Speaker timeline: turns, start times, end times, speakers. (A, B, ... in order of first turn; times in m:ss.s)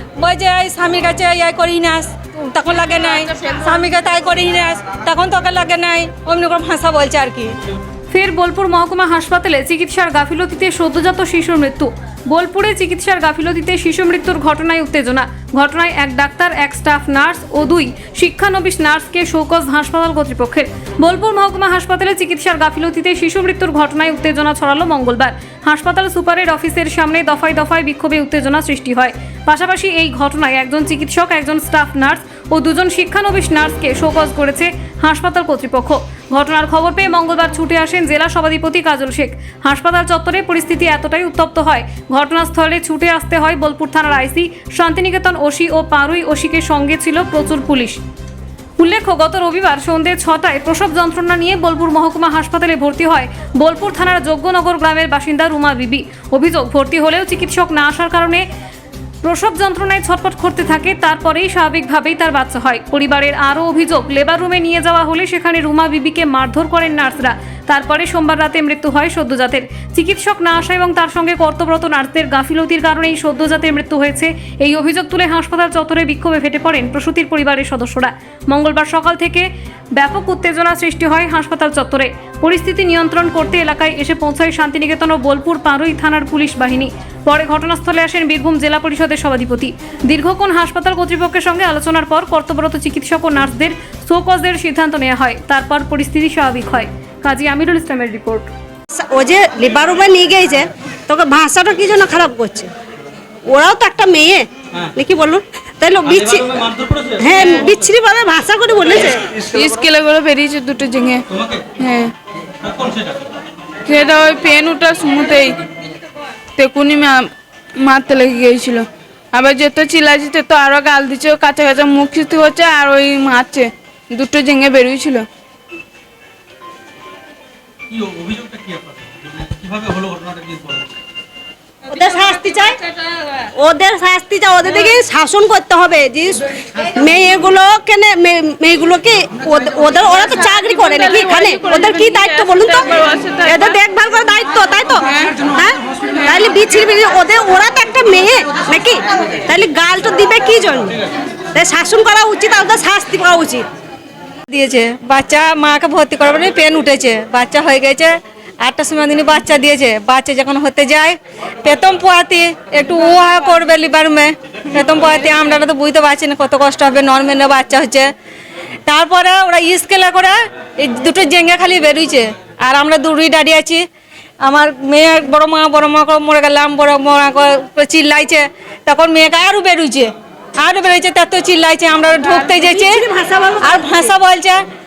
0:00.2-0:07.6 A
0:08.1-0:48.0 B
0:48.8-0:58.4 B
0:59.2-1:38.5 B
1:38.9-1:42.7 C
1:43.5-1:49.4 C
1:49.4-1:51.2 D
1:51.8-1:52.1 D
1:52.7-1:53.2 E
1:53.9-1:55.6 D
1:56.6-2:05.3 D
2:08.0-2:10.8 E
2:11.9-2:12.8 C
2:13.5-2:31.0 C
2:20.4-2:23.8 D
2:31.6-2:33.6 C
2:34.5-2:48.1 A
2:48.9-2:53.8 A
2:54.4-3:03.0 A
3:02.5-3:03.8 C
3:03.6-3:04.6 A